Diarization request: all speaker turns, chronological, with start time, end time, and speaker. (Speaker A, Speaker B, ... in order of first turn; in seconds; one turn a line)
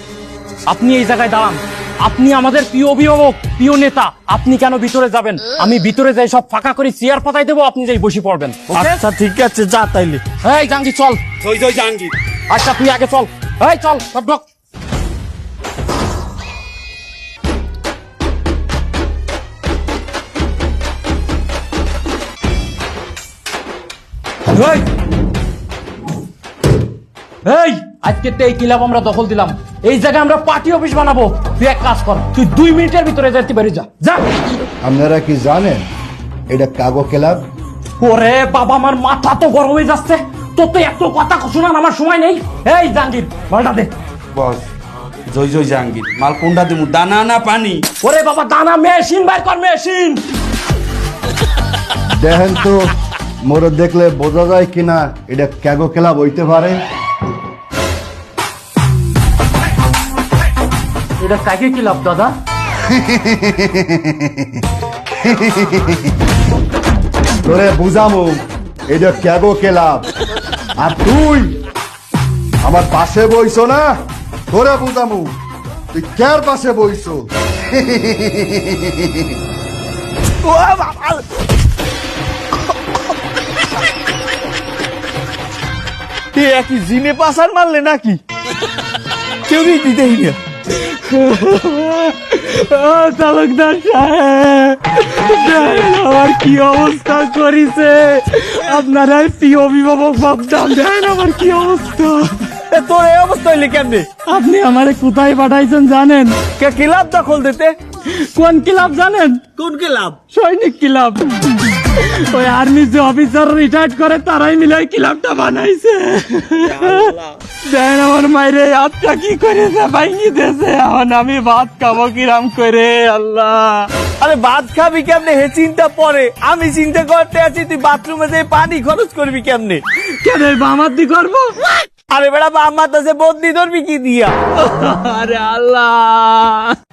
Speaker A: 0.7-8.6
Speaker B: 8.7-10.2
Speaker A: 10.4-11.2
Speaker C: 11.4-12.1
Speaker A: 12.5-14.4
Speaker A: 24.5-24.9
Speaker A: 27.4-34.2
Speaker D: 34.8-35.9
Speaker D: 36.5-37.5
Speaker A: 38.0-43.9
Speaker C: 44.3-44.7
Speaker C: 45.3-47.9
Speaker A: 48.0-50.2
Speaker D: 52.1-56.8
Speaker A: 61.2-62.4
Speaker D: 62.9-64.5
Speaker D: 65.2-66.1
Speaker D: 67.4-70.1
Speaker D: 70.8-71.6
Speaker D: 72.6-74.0
Speaker D: 74.5-75.4
Speaker D: 75.9-79.3
Speaker B: 80.4-81.2
Speaker B: 86.3-88.2
Speaker B: 89.5-90.4
Speaker A: 90.9-102.4
Speaker B: 102.7-104.1
Speaker A: 104.2-106.4
Speaker B: 106.6-107.8
Speaker A: 108.1-109.4
Speaker B: 109.6-110.2
Speaker A: 110.3-123.9
Speaker B: 124.2-129.8
Speaker A: 130.2-131.7
Speaker B: 132.1-134.4
Speaker A: 134.7-136.7